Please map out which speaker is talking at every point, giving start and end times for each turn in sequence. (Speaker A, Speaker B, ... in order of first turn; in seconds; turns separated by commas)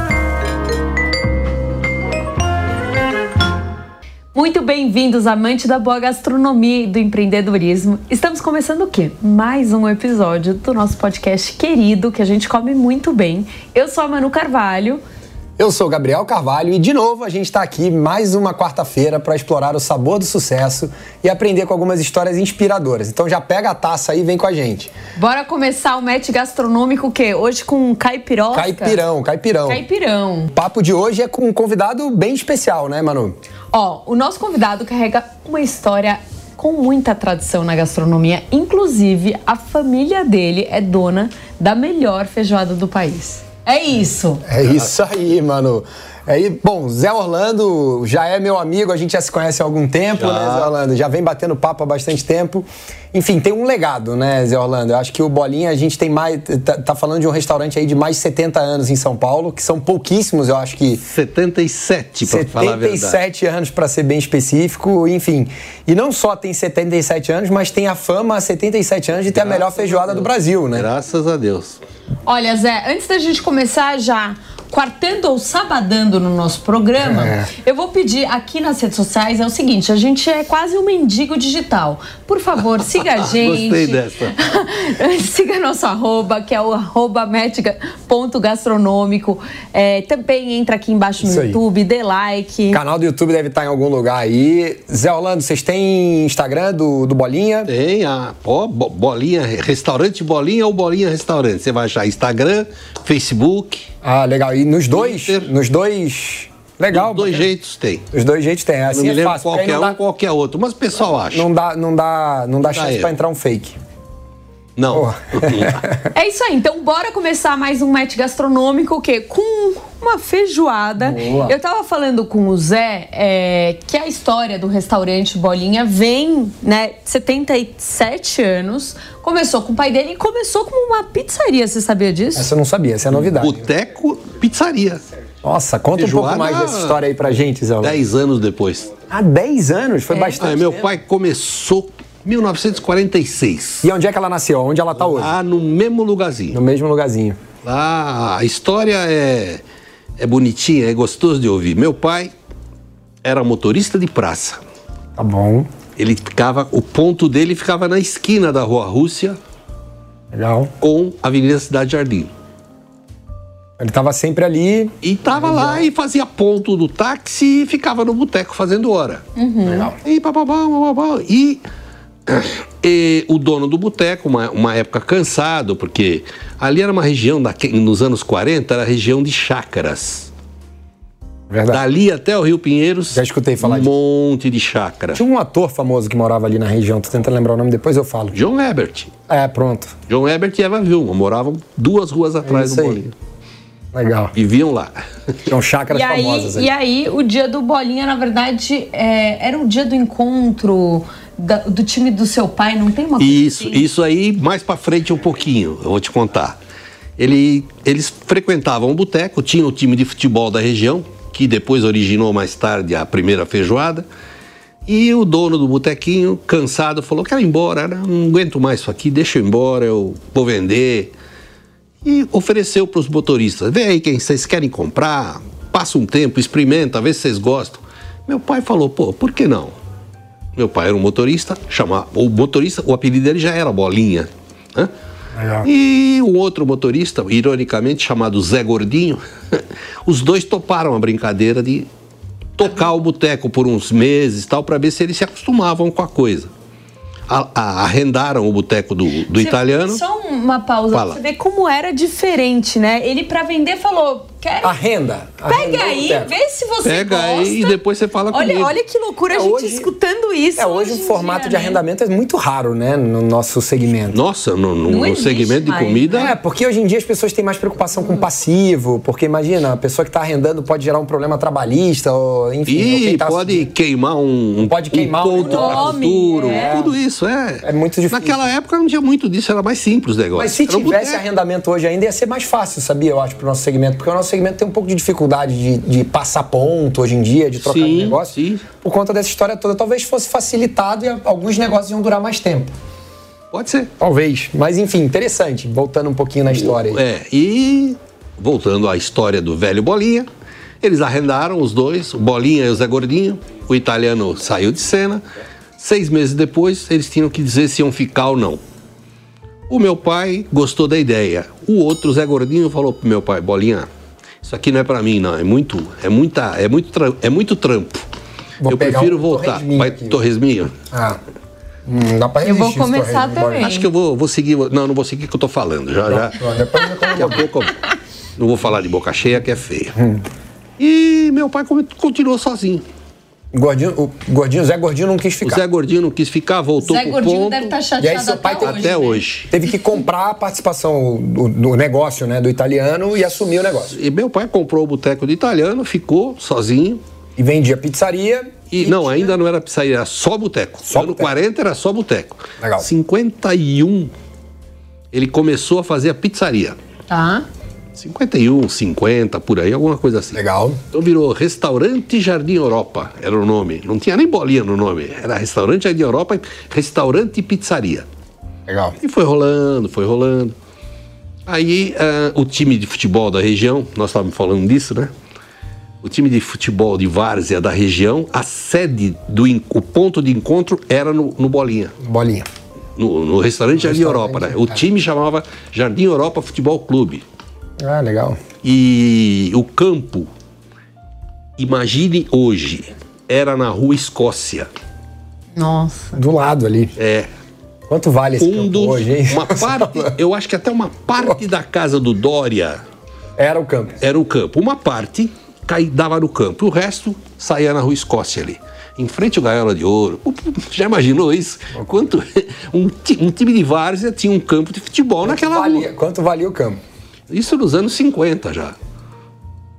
Speaker A: 4.3-15.0, Speaker B: 15.6-24.9, Speaker A: 25.1-29.0, Speaker B: 28.5-29.8, Speaker A: 29.6-30.5, Speaker B: 30.5-33.4, Speaker A: 33.7-44.4, Speaker B: 44.4-61.0, Speaker C: 44.6-44.9, Speaker C: 50.1-50.7, Speaker C: 61.0-63.2, Speaker B: 62.2-70.9, Speaker C: 69.3-71.8, Speaker A: 72.2-92.8, Speaker B: 77.0-77.5, Speaker C: 83.0-84.3, Speaker B: 91.2-91.6, Speaker B: 92.7-97.7, Speaker C: 97.7-103.9, Speaker B: 104.0-107.5, Speaker C: 104.9-105.5, Speaker C: 106.9-108.0, Speaker B: 108.1-110.0, Speaker C: 108.9-111.5, Speaker B: 111.3-113.8, Speaker C: 112.7-113.1, Speaker C: 114.8-115.8, Speaker B: 114.9-116.1, Speaker A: 116.1-132.5, Speaker B: 121.0-121.5, Speaker B: 132.3-133.7, Speaker C: 133.1-135.0, Speaker B: 135.4-138.0, Speaker C: 135.9-137.0, Speaker C: 137.8-138.9, Speaker B: 139.1-140.9, Speaker A: 140.1-140.4, Speaker C: 140.4-143.9, Speaker B: 143.8-145.3, Speaker C: 145.0-146.6, Speaker B: 146.5-147.4, Speaker C: 147.6-149.6, Speaker C: 150.2-152.3, Speaker C: 153.2-154.6, Speaker B: 155.2-155.7, Speaker C: 156.0-159.4, Speaker B: 160.3-160.7, Speaker C: 160.8-162.3, Speaker B: 163.8-165.9, Speaker C: 165.0-169.2, Speaker A: 169.3-169.9, Speaker B: 169.6-169.9, Speaker C: 170.0-171.6, Speaker C: 172.3-180.3, Speaker B: 181.5-181.8, Speaker C: 181.7-185.2, Speaker B: 183.1-183.9, Speaker B: 185.1-188.4, Speaker C: 188.3-189.1, Speaker B: 189.3-189.9, Speaker C: 190.1-193.1, Speaker B: 192.4-193.0, Speaker B: 193.9-194.3, Speaker C: 194.3-195.4, Speaker B: 195.4-196.7, Speaker A: 195.9-203.8, Speaker C: 203.2-206.6, Speaker C: 207.2-214.0, Speaker C: 214.8-221.1, Speaker C: 222.0-229.7, Speaker C: 230.6-234.9, Speaker B: 235.3-235.7, Speaker C: 235.6-241.9, Speaker C: 242.6-246.5, Speaker C: 247.3-250.0, Speaker A: 249.3-254.8, Speaker C: 250.9-251.2, Speaker B: 254.6-256.3, Speaker A: 255.5-257.8, Speaker C: 256.8-258.7, Speaker A: 258.3-261.8, Speaker B: 259.3-259.9, Speaker B: 260.6-264.2, Speaker C: 264.1-266.3, Speaker A: 264.9-266.3, Speaker B: 266.1-273.7, Speaker C: 272.7-281.2, Speaker B: 274.6-277.0, Speaker A: 275.4-276.7, Speaker B: 277.6-278.5, Speaker B: 280.3-292.7, Speaker C: 287.6-288.7, Speaker C: 293.5-293.9, Speaker B: 294.0-297.0, Speaker C: 296.5-300.3, Speaker C: 300.8-305.2, Speaker C: 305.8-308.6, Speaker C: 309.7-313.9, Speaker C: 314.4-318.1, Speaker B: 318.6-320.2, Speaker C: 318.6-320.7, Speaker B: 320.9-321.2, Speaker B: 321.8-323.7, Speaker A: 322.4-323.9, Speaker C: 323.6-326.4, Speaker B: 326.1-327.4, Speaker C: 327.1-327.8, Speaker C: 328.4-329.9, Speaker B: 329.9-330.2, Speaker C: 330.8-332.8, Speaker B: 333.5-335.6, Speaker C: 335.4-337.7, Speaker A: 336.8-339.2, Speaker B: 338.0-338.8, Speaker C: 338.6-339.5, Speaker B: 339.5-343.9, Speaker C: 343.9-347.0, Speaker B: 347.4-349.3, Speaker C: 348.7-354.1, Speaker B: 350.9-351.3, Speaker B: 352.6-352.9, Speaker C: 355.1-356.8, Speaker A: 357.1-357.4, Speaker C: 357.9-360.4, Speaker B: 360.3-360.8, Speaker C: 360.9-368.1, Speaker B: 368.7-369.0, Speaker C: 369.0-370.5, Speaker C: 371.4-375.1, Speaker C: 376.0-381.9, Speaker B: 382.0-382.5, Speaker C: 382.9-387.2, Speaker B: 383.7-384.8, Speaker B: 387.8-388.4, Speaker C: 388.6-390.3, Speaker C: 391.6-394.7, Speaker A: 395.5-396.2, Speaker B: 396.1-396.9, Speaker C: 397.0-397.3, Speaker B: 397.9-400.1, Speaker C: 398.4-402.8, Speaker B: 403.4-404.0, Speaker C: 404.0-415.9, Speaker B: 415.2-416.8, Speaker C: 417.3-418.8